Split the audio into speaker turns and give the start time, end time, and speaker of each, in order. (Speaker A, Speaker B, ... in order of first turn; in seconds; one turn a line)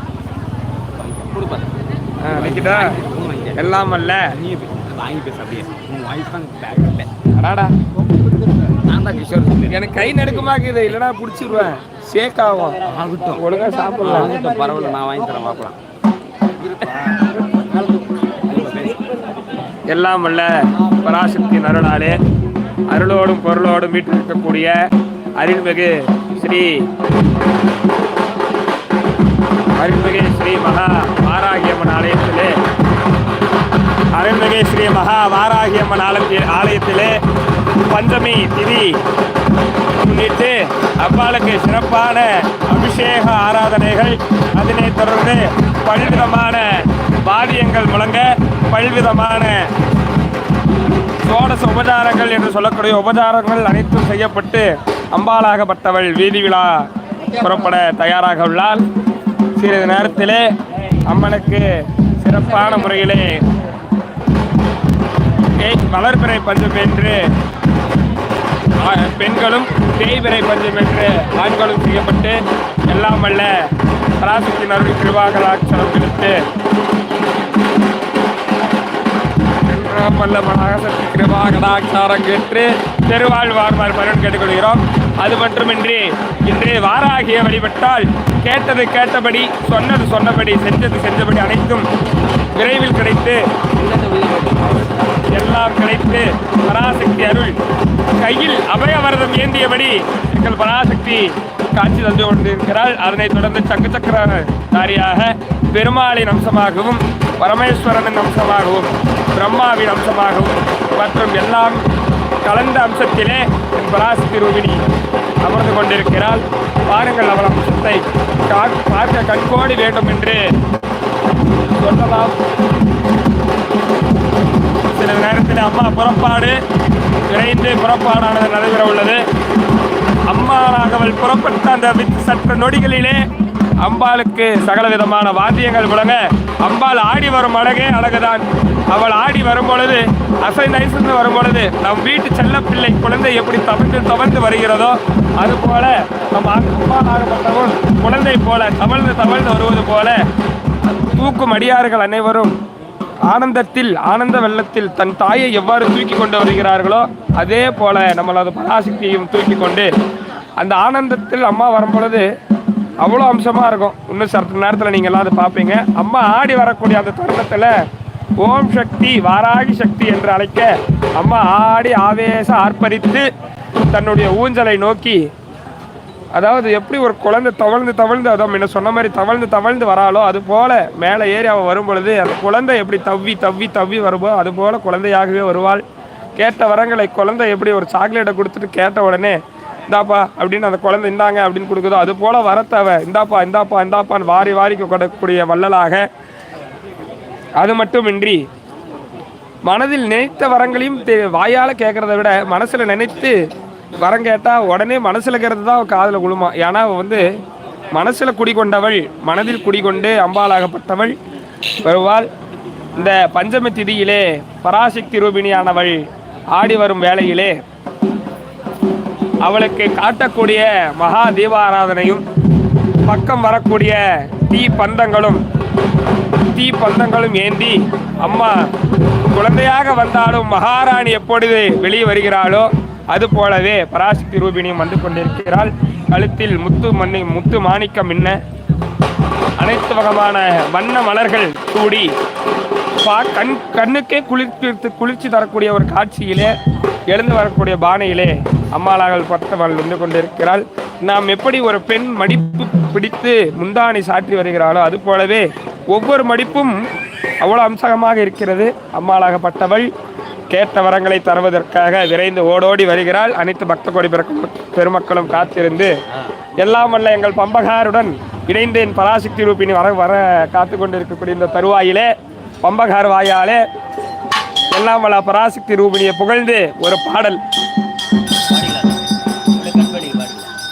Speaker A: 1.0-3.6
Speaker B: 2.2-3.0
Speaker B: 3.5-4.3
Speaker A: 4.4-7.1
Speaker B: 7.3-7.8
Speaker A: 8.7-10.0
Speaker B: 9.7-12.8
Speaker A: 12.8-13.4
Speaker B: 13.3-14.3
Speaker A: 14.0-15.8
Speaker A: 18.5-19.0
Speaker B: 19.9-22.2
Speaker B: 22.9-24.8
Speaker B: 25.4-26.9
Speaker B: 29.8-32.6
Speaker B: 34.1-37.2
Speaker B: 37.9-39.0
Speaker B: 40.0-49.7
Speaker B: 51.2-58.9
Speaker B: 59.5-60.5
Speaker B: 61.0-63.4
Speaker B: 65.5-67.3
Speaker B: 68.8-76.4
Speaker B: 79.6-91.9
Speaker B: 92.5-93.4
Speaker A: 93.8-94.9
Speaker B: 95.3-97.6
Speaker B: 98.2-111.8
Speaker B: 112.4-114.8
Speaker B: 115.4-120.5
Speaker B: 121.8-122.4
Speaker B: 124.8-126.6
Speaker B: 127.3-129.2
Speaker B: 130.3-133.2
Speaker B: 133.8-150.2
Speaker B: 150.8-152.6
Speaker B: 153.2-159.9
Speaker B: 160.6-162.3
Speaker B: 163.0-167.7
Speaker B: 168.4-173.3
Speaker B: 173.8-175.2
Speaker B: 176.3-185.8
Speaker B: 186.4-196.1
Speaker B: 197.6-198.4
Speaker B: 199.7-203.4
Speaker B: 204.0-207.3
Speaker B: 207.9-211.2
Speaker B: 211.8-212.3
Speaker B: 212.9-217.6
Speaker B: 219.4-222.2
Speaker B: 223.0-225.4
Speaker B: 226.5-228.6
Speaker B: 229.3-238.4
Speaker B: 239.6-242.1
Speaker B: 243.0-246.5
Speaker B: 247.1-256.9
Speaker B: 257.4-259.9
Speaker B: 260.5-265.9
Speaker B: 266.6-272.1
Speaker B: 272.6-273.6
Speaker B: 274.7-277.4
Speaker A: 278.5-279.0
Speaker A: 279.5-280.5